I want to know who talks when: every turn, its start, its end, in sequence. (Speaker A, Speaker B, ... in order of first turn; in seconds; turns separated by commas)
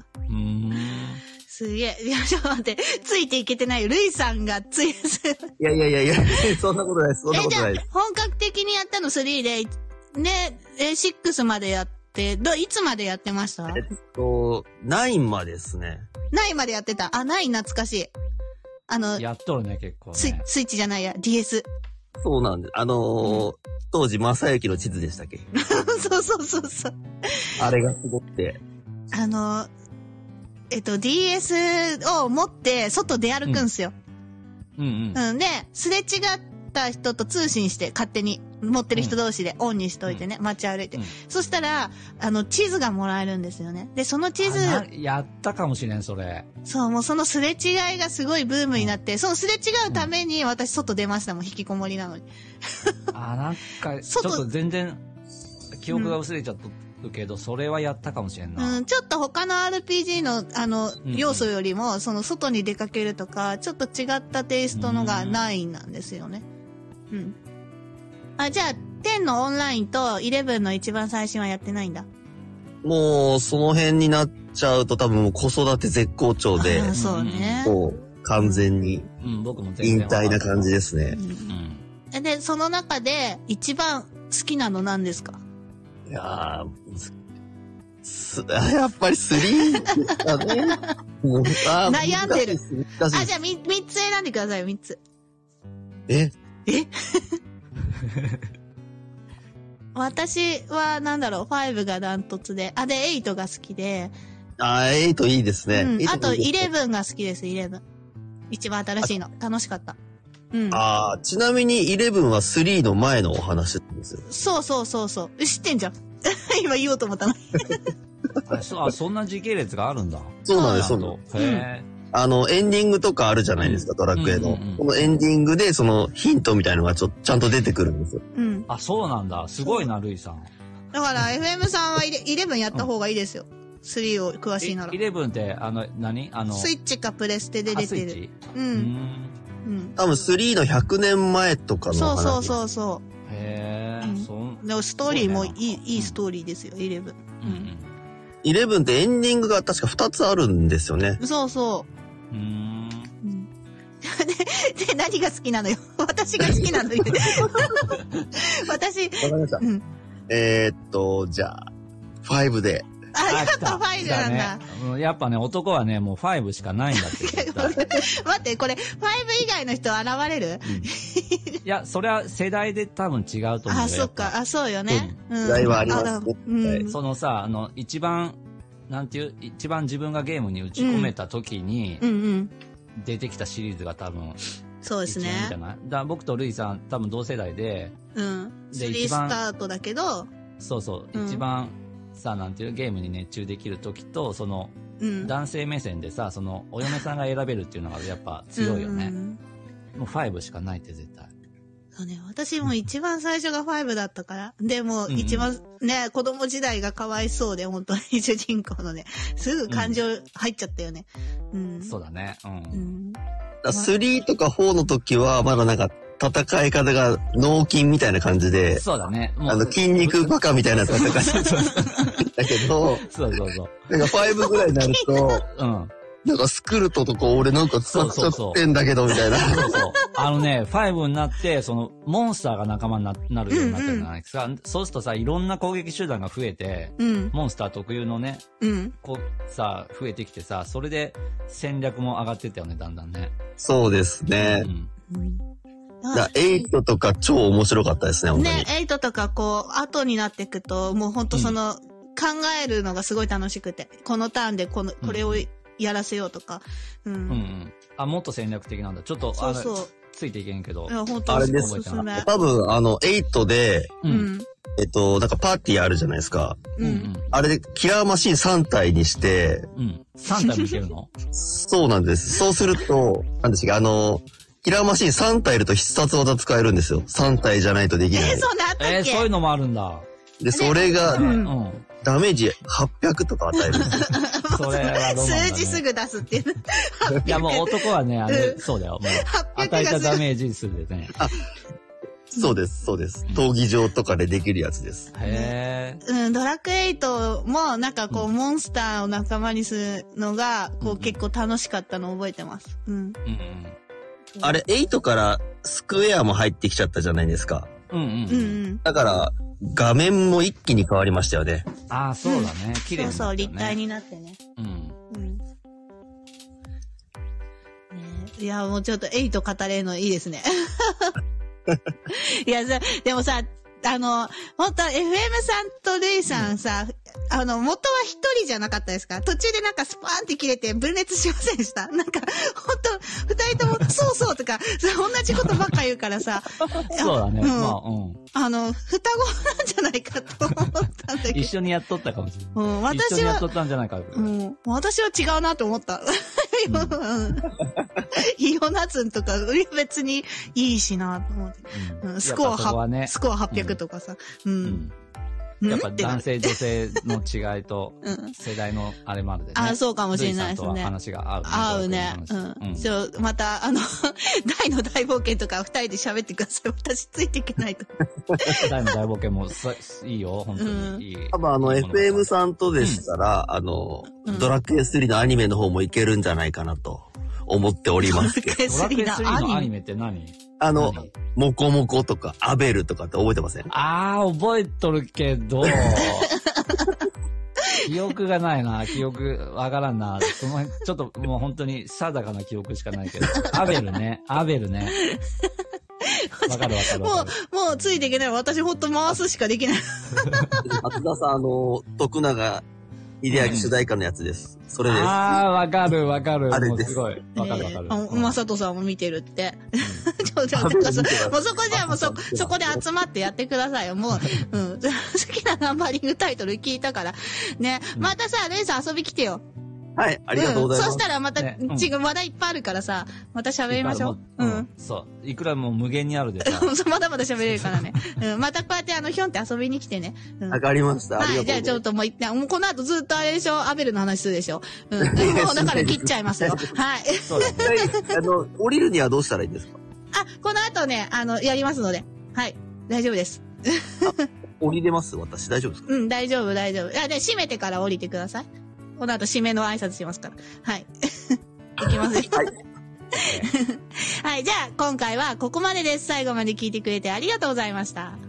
Speaker A: 0.3-1.2, Speaker B: 1.5-5.5, Speaker C: 5.6-7.8, Speaker B: 7.3-13.8, Speaker C: 13.7-16.0, Speaker B: 16.3-18.1, Speaker B: 18.9-19.2, Speaker A: 19.2-20.4, Speaker B: 20.2-21.7, Speaker C: 22.2-25.4, Speaker B: 23.2-23.5, Speaker B: 25.6-27.5, Speaker C: 27.6-28.6, Speaker B: 29.1-29.7, Speaker B: 30.7-33.9, Speaker A: 34.8-35.2, Speaker B: 35.1-44.8, Speaker A: 44.4-46.5, Speaker B: 46.6-52.3, Speaker A: 53.1-55.0, Speaker B: 54.0-54.5, Speaker A: 55.8-58.8, Speaker B: 55.9-56.2, Speaker B: 58.6-66.5, Speaker A: 61.0-61.5, Speaker A: 64.7-65.5, Speaker B: 67.1-67.4, Speaker B: 68.4-72.1, Speaker C: 72.8-76.9, Speaker B: 76.6-77.8, Speaker A: 76.9-77.7, Speaker C: 77.6-79.1, Speaker B: 78.4-78.7, Speaker A: 79.2-80.7, Speaker C: 79.8-81.2, Speaker B: 81.1-81.6, Speaker A: 81.5-81.8, Speaker B: 82.1-85.4, Speaker C: 86.1-87.1, Speaker C: 88.0-93.3, Speaker B: 89.5-90.9, Speaker B: 91.5-92.6, Speaker B: 93.1-95.0, Speaker B: 96.7-97.4, Speaker B: 100.0-104.1, Speaker C: 104.6-106.7, Speaker B: 105.7-107.8, Speaker B: 108.5-110.0, Speaker B: 110.5-110.8, Speaker C: 110.7-114.2, Speaker B: 114.2-117.9, Speaker A: 118.5-121.9, Speaker C: 120.5-121.2, Speaker B: 120.5-121.7, Speaker C: 122.1-128.2, Speaker A: 123.6-124.9, Speaker B: 128.3-128.7, Speaker A: 128.7-130.5, Speaker B: 129.6-129.9, Speaker B: 130.9-135.0, Speaker A: 134.6-136.7, Speaker B: 136.5-138.9, Speaker A: 137.7-139.3, Speaker B: 139.6-140.0, Speaker C: 140.0-142.6, Speaker B: 141.9-143.0, Speaker A: 143.3-146.2, Speaker B: 144.0-147.7, Speaker A: 147.4-147.9, Speaker C: 148.4-151.2, Speaker B: 151.2-151.9, Speaker A: 152.3-153.1, Speaker B: 153.2-153.5, Speaker B: 154.0-159.8, Speaker C: 159.2-159.6, Speaker C: 160.3-161.6, Speaker C: 162.2-162.9, Speaker B: 163.1-164.7, Speaker A: 163.3-167.8, Speaker B: 167.0-171.6, Speaker A: 170.6-170.9, Speaker A: 171.6-174.4, Speaker B: 173.7-177.0, Speaker A: 174.9-176.0, Speaker C: 175.4-176.9, Speaker A: 176.9-178.4, Speaker A: 178.9-182.0, Speaker B: 180.8-181.1, Speaker B: 182.0-182.5, Speaker A: 183.0-184.4, Speaker B: 184.8-185.6, Speaker A: 185.1-187.9, Speaker B: 188.2-190.3, Speaker A: 188.7-189.4, Speaker A: 190.6-199.2, Speaker B: 191.1-191.4, Speaker B: 195.0-195.3, Speaker B: 198.6-199.4, Speaker A: 199.9-201.3, Speaker B: 202.0-212.0, Speaker A: 205.1-205.5, Speaker A: 209.7-210.0, Speaker A: 211.8-212.9, Speaker B: 212.7-213.2, Speaker C: 213.6-218.8, Speaker A: 218.7-222.2, Speaker C: 219.5-221.6, Speaker B: 221.6-222.2, Speaker C: 222.2-223.1, Speaker A: 223.1-223.8, Speaker C: 223.9-225.5, Speaker B: 224.2-225.3, Speaker A: 225.5-225.9, Speaker C: 226.2-229.8, Speaker A: 227.9-228.6, Speaker A: 229.2-238.4, Speaker B: 229.6-229.9, Speaker B: 233.5-234.1, Speaker B: 237.0-237.3, Speaker B: 238.6-238.9, Speaker A: 239.0-243.3, Speaker C: 243.6-244.7, Speaker A: 244.4-244.9, Speaker B: 245.1-245.4, Speaker B: 246.0-246.3, Speaker C: 246.1-248.7, Speaker B: 248.3-257.4, Speaker A: 255.0-255.4, Speaker A: 257.3-262.1, Speaker B: 259.4-259.9, Speaker B: 260.9-262.3, Speaker C: 261.3-264.0, Speaker A: 264.0-264.3, Speaker B: 264.1-264.5, Speaker C: 264.8-266.7, Speaker B: 266.8-267.1, Speaker A: 266.8-267.3, Speaker C: 267.3-269.7, Speaker A: 269.8-271.1, Speaker B: 270.3-270.8, Speaker C: 271.4-278.5, Speaker B: 278.1-279.3, Speaker A: 278.8-280.1, Speaker C: 280.4-281.4, Speaker B: 280.5-281.5, Speaker A: 281.1-281.9, Speaker C: 282.0-284.0, Speaker B: 283.7-290.2, Speaker A: 284.5-285.8, Speaker A: 287.2-291.1, Speaker C: 292.3-295.1, Speaker A: 295.1-296.0, Speaker B: 295.2-295.5, Speaker B: 296.1-303.2, Speaker A: 300.8-301.2, Speaker A: 303.2-303.8, Speaker B: 304.4-304.6, Speaker C: 304.4-307.7, Speaker A: 307.9-308.6, Speaker B: 308.3-308.8, Speaker C: 308.8-311.7, Speaker A: 311.9-313.8, Speaker B: 312.2-314.4, Speaker A: 314.6-315.0, Speaker B: 315.1-315.4, Speaker B: 317.9-321.2, Speaker B: 322.1-337.8, Speaker A: 336.8-338.2, Speaker B: 338.3-341.5, Speaker A: 341.3-344.3, Speaker B: 342.6-343.5, Speaker B: 344.1-347.6, Speaker A: 346.7-347.0, Speaker B: 348.1-354.8, Speaker A: 351.7-353.8, Speaker A: 354.6-354.9, Speaker B: 355.6-356.6, Speaker A: 355.7-362.9, Speaker B: 358.0-358.4, Speaker B: 359.6-360.9, Speaker B: 361.4-368.8, Speaker A: 368.6-373.1, Speaker B: 370.6-371.1, Speaker C: 371.3-378.6, Speaker B: 374.2-374.6, Speaker B: 378.1-379.7, Speaker A: 378.7-381.1, Speaker C: 380.6-383.7, Speaker A: 383.7-386.3, Speaker B: 386.0-387.0, Speaker A: 387.8-395.0, Speaker B: 394.9-395.5, Speaker B: 396.0-400.8, Speaker A: 396.5-397.3, Speaker C: 400.7-402.6, Speaker C: 403.2-405.4, Speaker A: 403.3-403.7, Speaker A: 404.9-408.4, Speaker C: 406.5-407.0, Speaker B: 407.4-419.4, Speaker A: 409.8-410.1, Speaker C: 410.6-412.8, Speaker A: 411.7-412.5, Speaker C: 420.0-421.1, Speaker B: 420.3-424.7, Speaker A: 421.4-421.9, Speaker A: 423.7-426.7, Speaker B: 426.4-430.6, Speaker A: 427.4-428.0, Speaker C: 430.5-431.8, Speaker B: 431.2-438.1, Speaker C: 435.0-436.7, Speaker A: 437.2-437.8, Speaker C: 437.6-439.8, Speaker B: 440.1-444.3, Speaker C: 444.6-445.9, Speaker B: 445.9-452.5, Speaker C: 452.1-452.5, Speaker B: 453.1-458.2, Speaker A: 453.1-453.5